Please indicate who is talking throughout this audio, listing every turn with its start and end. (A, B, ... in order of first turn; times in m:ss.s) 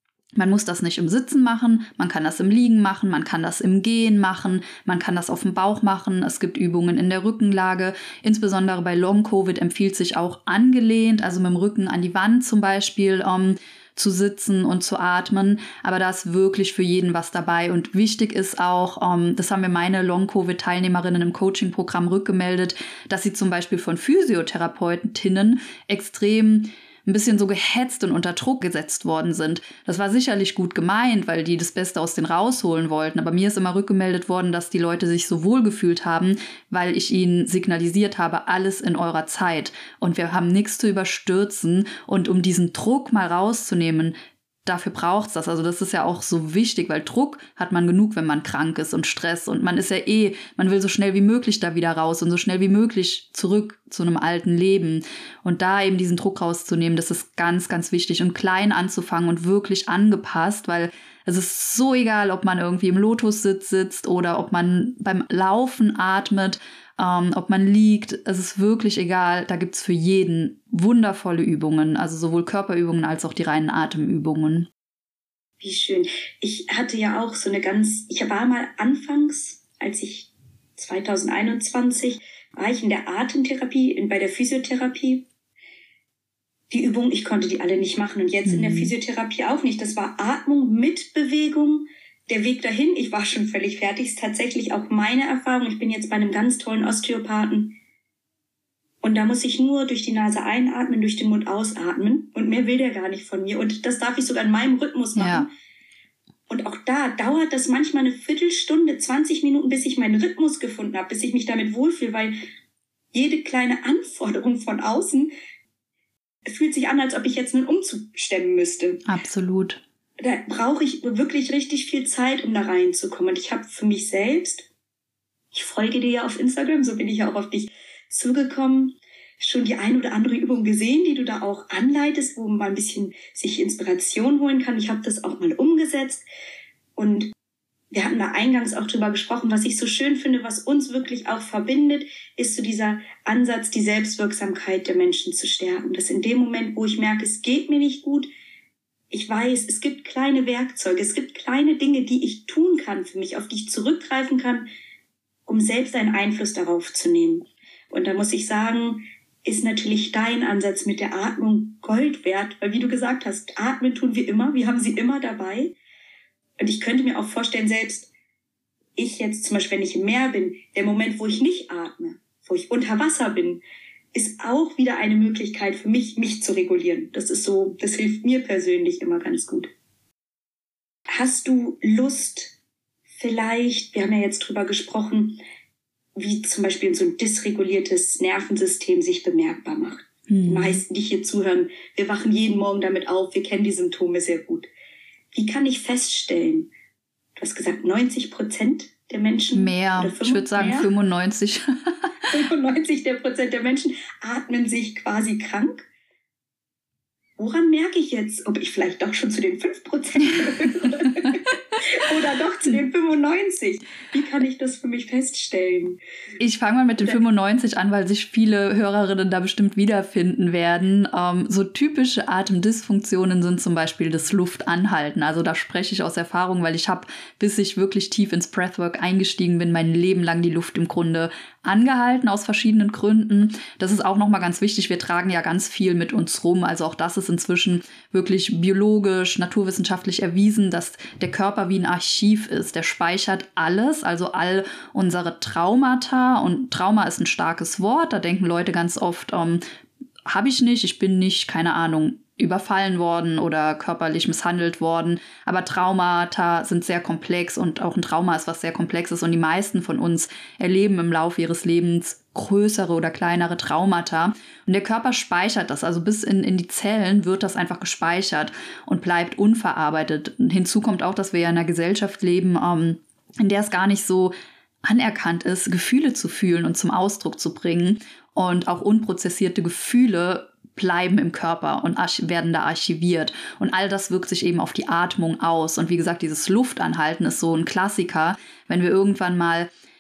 0:00.4-0:44.1 A
0:44.7-1:14.7 A
1:15.6-1:25.3 B
1:26.7-1:37.8 B
1:28.4-1:28.9 A
1:39.0-1:45.5 B
1:45.2-1:45.5 A
1:46.5-1:52.4 B
1:53.1-1:55.3 B
1:56.5-1:59.0 B
1:59.1-1:59.8 A
2:00.2-2:04.7 B
2:05.5-2:16.2 B
2:17.0-2:17.3 B
2:17.9-2:28.3 B
2:29.1-2:34.7 B
2:35.5-2:45.8 B
2:46.6-2:48.1 B
2:49.0-2:53.6 B
2:54.1-2:59.7 B
3:01.1-3:02.6 B
3:03.2-3:05.4 B
3:06.2-3:14.7 B
3:10.3-3:10.8 A
3:15.3-3:16.7 B
3:17.4-3:20.9 B
3:19.6-3:22.3 A
3:22.3-3:25.9 B
3:27.4-3:36.0 B
3:36.4-4:09.6 A
4:10.3-4:34.3 A
4:34.8-4:49.7 A